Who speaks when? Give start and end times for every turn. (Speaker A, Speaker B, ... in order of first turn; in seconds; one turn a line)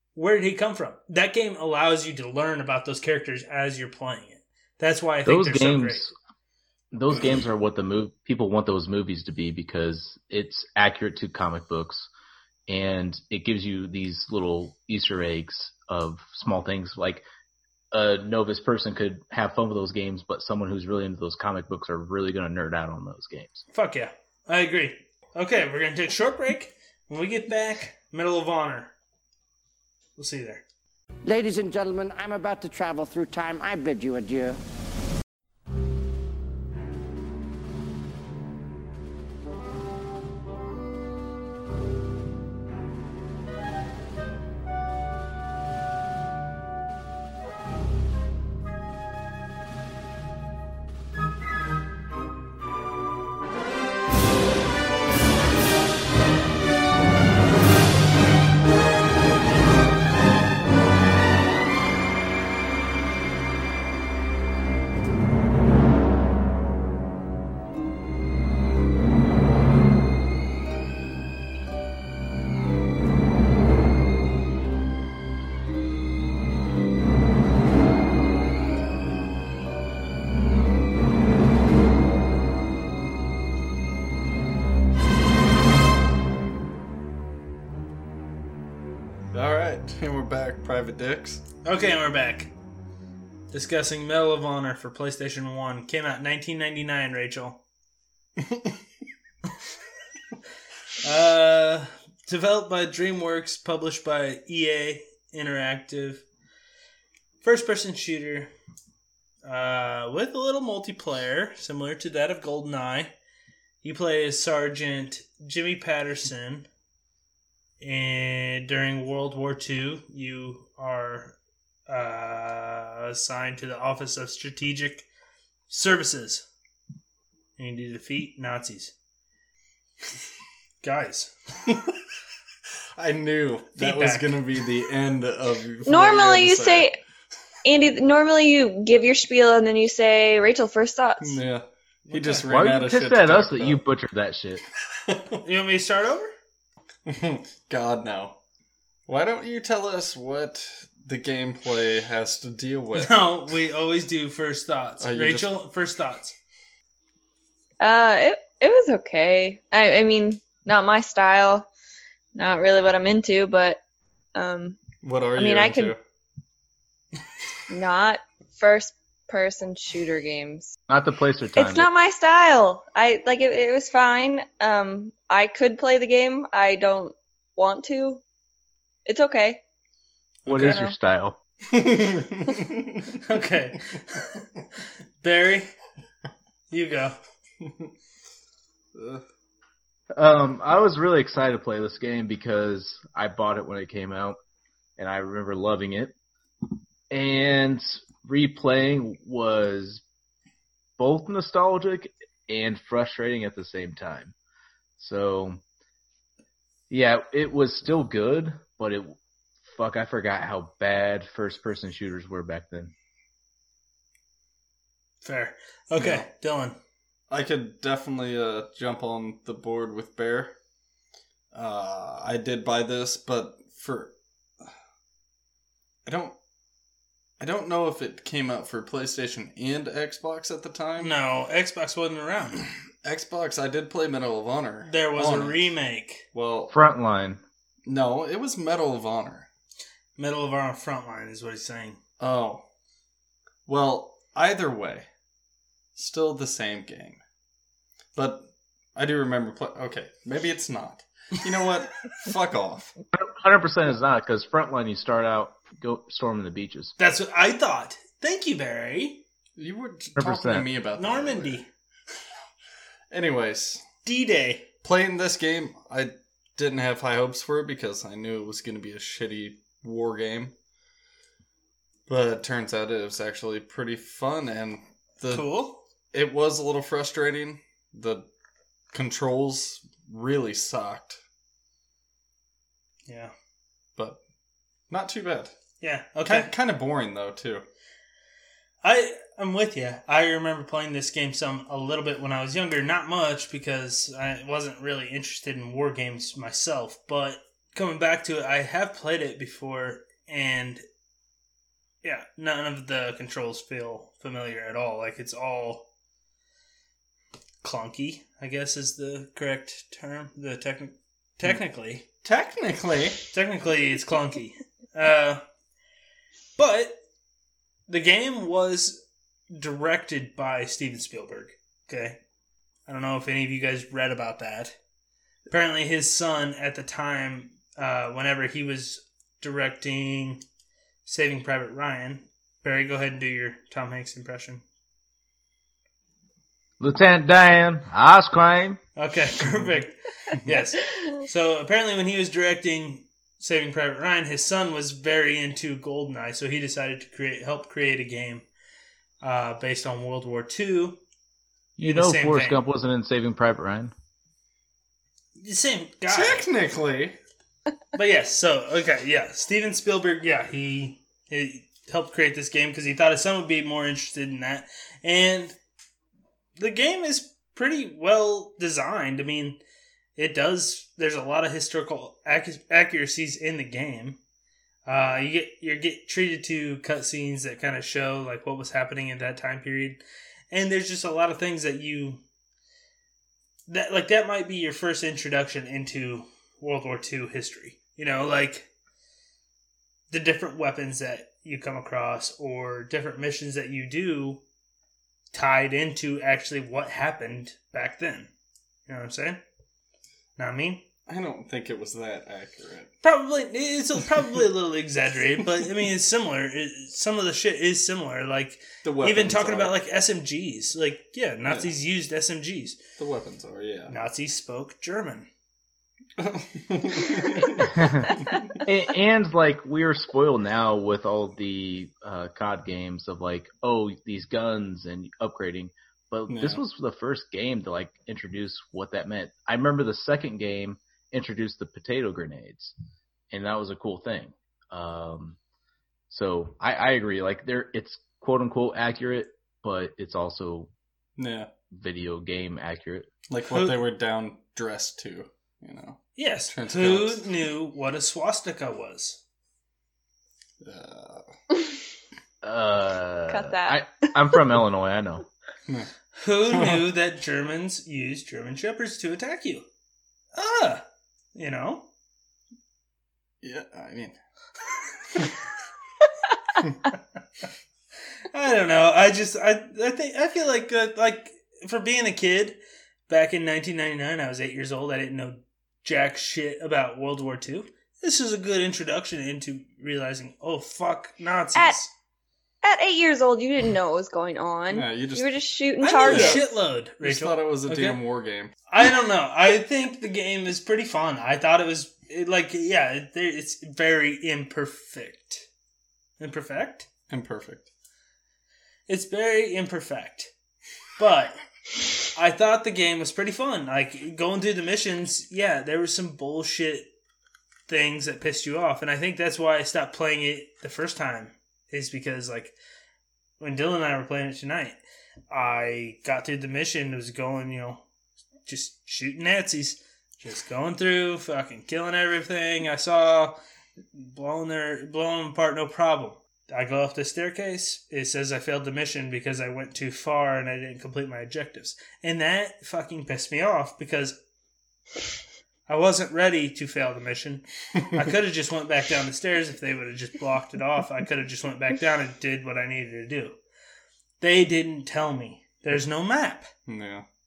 Speaker A: 0.1-6.0
Speaker B: 5.2-6.1
Speaker B: 6.9-12.1
Speaker B: 12.7-17.2
Speaker B: 17.9-23.6
Speaker A: 23.7-28.9
Speaker A: 30.2-30.6
Speaker C: 31.3-34.6
Speaker D: 89.3-91.4
Speaker A: 91.6-92.5
Speaker A: 93.5-97.6
Speaker A: 101.0-106.2
Speaker A: 107.4-108.5
Speaker A: 109.5-113.1
Speaker A: 113.8-116.7
Speaker A: 117.8-121.4
Speaker A: 121.9-125.1
Speaker A: 125.7-126.5
Speaker A: 127.6-128.9
Speaker A: 130.8-131.3
Speaker D: 133.0-136.9
Speaker A: 133.8-134.4
Speaker E: 135.9-137.0
Speaker E: 137.6-141.4
Speaker D: 141.2-143.8
Speaker A: 142.1-142.5
Speaker B: 142.5-144.6
Speaker D: 145.1-145.4
Speaker A: 145.4-146.3
Speaker D: 147.1-148.4
Speaker D: 149.1-153.2
Speaker A: 152.9-156.4
Speaker D: 155.0-155.5
Speaker E: 157.8-161.7
Speaker E: 162.3-163.8
Speaker E: 164.3-164.8
Speaker D: 165.0-166.0
Speaker E: 165.4-165.9
Speaker E: 167.7-170.7
Speaker B: 170.9-171.9
Speaker E: 171.6-178.2
Speaker E: 179.1-179.6
Speaker A: 180.4-180.8
Speaker B: 180.5-181.4
Speaker E: 180.6-180.9
Speaker D: 181.7-183.1
Speaker A: 183.2-184.4
Speaker A: 185.2-185.7
Speaker A: 186.7-187.2
Speaker D: 188.9-189.2
Speaker B: 190.1-194.4
Speaker B: 195.0-196.1
Speaker B: 197.1-200.0
Speaker B: 201.0-204.3
Speaker B: 205.0-205.6
Speaker B: 206.9-209.2
Speaker B: 209.7-212.9
Speaker A: 215.2-216.8
Speaker D: 216.0-216.3
Speaker D: 217.3-220.5
Speaker D: 221.5-224.1
Speaker D: 226.1-226.3
Speaker D: 227.4-231.1
Speaker A: 231.0-232.6
Speaker D: 233.0-235.7
Speaker A: 234.8-236.3
Speaker D: 236.3-236.7
Speaker B: 236.7-237.4
Speaker D: 237.9-239.5
Speaker A: 240.2-242.0
Speaker D: 242.2-242.6
Speaker D: 243.7-245.1
Speaker D: 245.9-247.2
Speaker D: 248.1-252.9
Speaker B: 253.1-256.9
Speaker A: 257.0-259.2
Speaker D: 259.6-261.6
Speaker B: 260.2-260.7
Speaker A: 261.0-261.7
Speaker D: 263.1-263.8
Speaker A: 264.1-264.7
Speaker D: 264.8-270.5
Speaker D: 272.1-275.5
Speaker A: 275.3-275.8
Speaker D: 276.1-278.3
Speaker D: 278.9-281.2
Speaker A: 283.1-283.3
Speaker D: 284.9-285.5
Speaker A: 285.8-286.5
Speaker D: 286.2-287.6
Speaker A: 288.8-300.8
Speaker A: 302.0-305.9
Speaker A: 307.6-312.1
Speaker D: 312.2-313.2
Speaker A: 313.3-315.4
Speaker A: 316.6-317.0
Speaker A: 317.9-322.2
Speaker A: 322.9-324.7
Speaker A: 325.5-330.4
Speaker A: 331.1-334.6
Speaker B: 336.8-338.8
Speaker A: 339.0-348.4
Speaker A: 349.2-351.0
Speaker B: 351.8-353.9
Speaker A: 351.8-352.6
Speaker A: 355.4-356.5
Speaker D: 356.1-357.2
Speaker A: 357.9-365.6
Speaker A: 366.6-369.6
Speaker A: 370.2-374.2
Speaker A: 374.9-382.2
Speaker A: 383.7-388.7
Speaker A: 390.1-394.4
Speaker A: 395.3-398.3
Speaker A: 398.9-399.4
Speaker A: 400.4-400.9
Speaker D: 401.1-402.9
Speaker A: 403.0-412.8
Speaker D: 408.8-409.7
Speaker D: 411.5-411.7
Speaker D: 413.0-413.9
Speaker A: 413.9-415.3
Speaker D: 416.2-418.6
Speaker B: 417.6-432.7
Speaker D: 426.3-426.6
Speaker B: 433.3-435.4
Speaker B: 436.1-440.7
Speaker D: 441.2-441.5
Speaker B: 441.7-443.1
Speaker D: 443.3-447.3
Speaker A: 443.5-443.8
Speaker A: 446.2-449.2
Speaker D: 450.6-451.3
Speaker B: 452.4-455.2
Speaker E: 453.3-453.8
Speaker A: 456.2-459.7
Speaker D: 456.5-456.9
Speaker A: 460.4-460.8
Speaker A: 461.4-461.9
Speaker D: 463.4-464.2
Speaker A: 468.3-472.6
Speaker A: 473.1-481.9
Speaker E: 482.6-486.4
Speaker D: 484.7-485.3
Speaker A: 485.8-488.0
Speaker D: 486.0-486.4
Speaker D: 487.0-488.5
Speaker A: 488.7-495.5
Speaker A: 496.2-496.9
Speaker D: 497.1-497.7
Speaker A: 498.9-500.3
Speaker A: 501.0-501.4
Speaker A: 502.1-506.9
Speaker A: 507.7-512.6
Speaker A: 513.4-514.8
Speaker A: 515.3-517.8
Speaker A: 518.5-523.4
Speaker A: 524.0-534.2
Speaker A: 535.7-543.4
Speaker A: 544.2-546.5
Speaker D: 546.7-547.0